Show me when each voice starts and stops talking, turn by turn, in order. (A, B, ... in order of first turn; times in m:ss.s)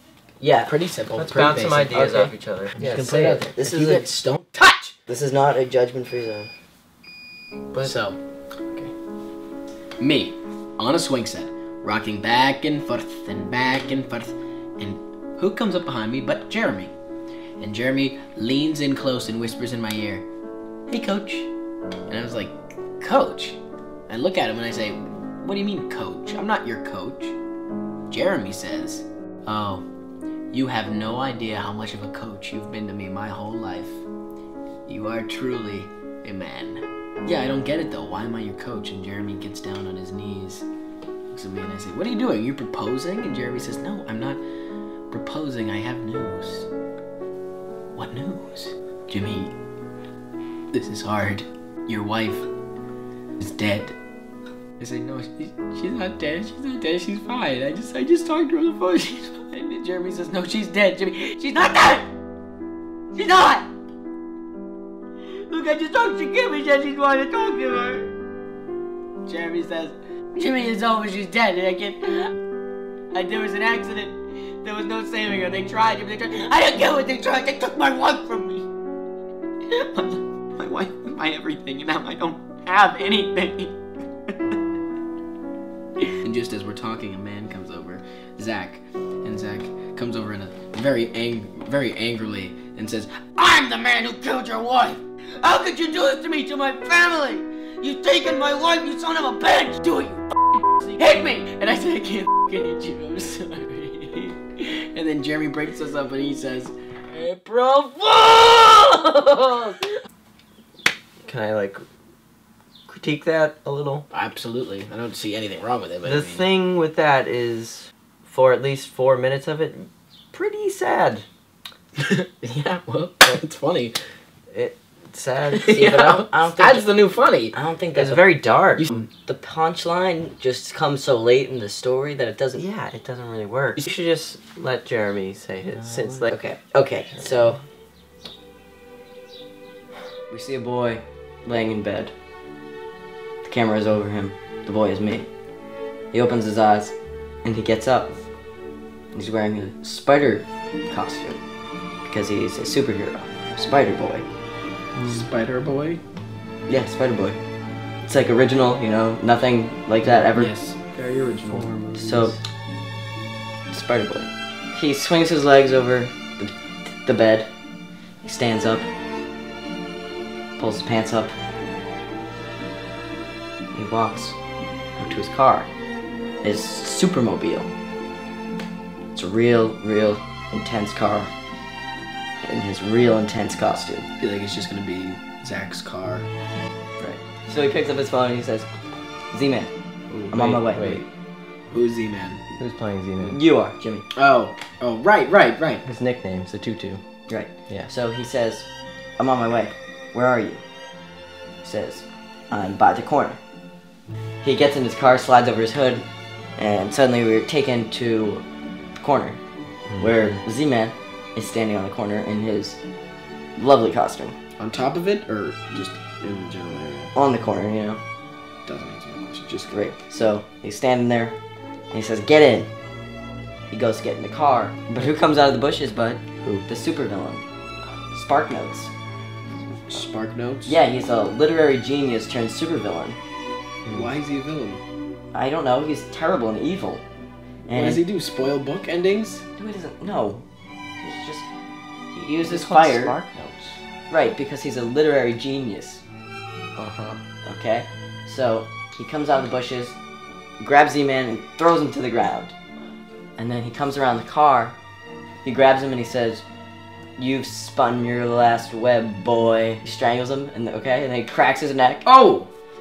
0:00.4-0:00.7 A
0:00.6-0:02.2 B
0:01.1-0:02.8 C
0:01.9-0:04.1 A
0:02.8-0:05.0 B
0:05.1-0:06.5 A
0:07.8-0:08.2 B
0:10.0-0:16.9 B
0:17.6-0:20.3 B
0:20.9-0:21.5 B
0:22.1-0:27.4 B
0:28.1-0:29.9 B
0:30.5-0:34.0 B
0:34.9-0:40.7 B
0:41.3-0:44.4 B
0:45.1-0:46.7 B
0:48.0-0:49.5 B
0:50.7-0:52.5 B
0:53.4-0:54.0 B
0:54.8-1:02.1 B
1:03.1-1:03.7 B
1:05.4-1:08.1 B
1:09.3-1:12.3 B
1:13.1-1:18.7 B
1:19.7-1:23.8 B
1:26.1-1:49.8 B
1:51.2-1:51.8 C
1:52.9-1:54.1 C
1:54.1-1:56.5 B
1:56.0-2:01.3 C
2:02.0-2:04.0 B
2:04.5-2:05.7 C
2:05.5-2:07.5 B
2:05.7-2:06.9 A
2:07.5-2:08.2 A
2:07.9-2:08.9 C
2:08.8-2:09.1 B
2:09.2-2:12.6 A
2:12.6-2:16.3 C
2:15.7-2:17.6 A
2:20.3-2:22.1 A
2:23.4-2:25.3 A
2:26.1-2:28.2 A
2:29.1-2:31.4 A
2:32.0-2:34.2 A
2:35.0-2:36.0 B
2:36.7-2:37.4 A
2:38.0-2:40.5 A
2:40.3-2:41.8 B
2:41.5-2:42.3 C
2:41.9-2:42.4 A
2:43.7-2:47.5 A
2:48.2-2:48.9 A
2:50.6-2:51.4 A
2:53.7-2:54.4 A
2:55.0-2:55.7 A
2:56.4-2:57.7 A
2:59.1-3:01.3 A
3:02.4-3:04.1 A
3:04.2-3:06.3 B
3:07.0-3:08.7 A
3:09.3-3:09.7 A
3:10.1-3:11.0 C
3:10.3-3:11.0 A
3:11.7-3:12.4 B
3:12.6-3:13.4 C
3:13.2-3:14.0 A
3:14.2-3:15.8 B
3:15.8-3:17.0 C
3:17.3-3:20.6 A
3:21.6-3:23.4 A
3:24.4-3:26.1 A
3:26.6-3:28.4 A
3:29.0-3:29.4 A
3:30.0-3:32.8 A
3:33.6-3:34.4 A
3:34.6-3:37.1 B
3:37.1-3:38.0 A
3:38.7-3:39.9 B
3:39.7-3:41.4 A
3:41.9-3:42.7 A
3:43.7-3:47.5 A
3:48.1-3:48.9 A
3:49.9-3:50.8 B
3:50.7-3:53.2 A
3:53.9-3:54.8 B
3:55.3-3:57.0 A
3:57.7-3:58.0 A
3:57.7-3:59.4 B
3:59.6-4:00.4 A
4:01.0-4:01.5 A
4:02.1-4:03.2 A
4:02.5-4:03.3 C
4:02.5-4:03.8 B
4:04.1-4:06.0 A
4:06.8-4:07.2 C
4:07.4-4:10.0 A
4:10.6-4:12.5 A
4:13.4-4:14.8 A
4:15.4-4:16.4 A
4:17.2-4:22.1 A
4:22.0-4:22.5 B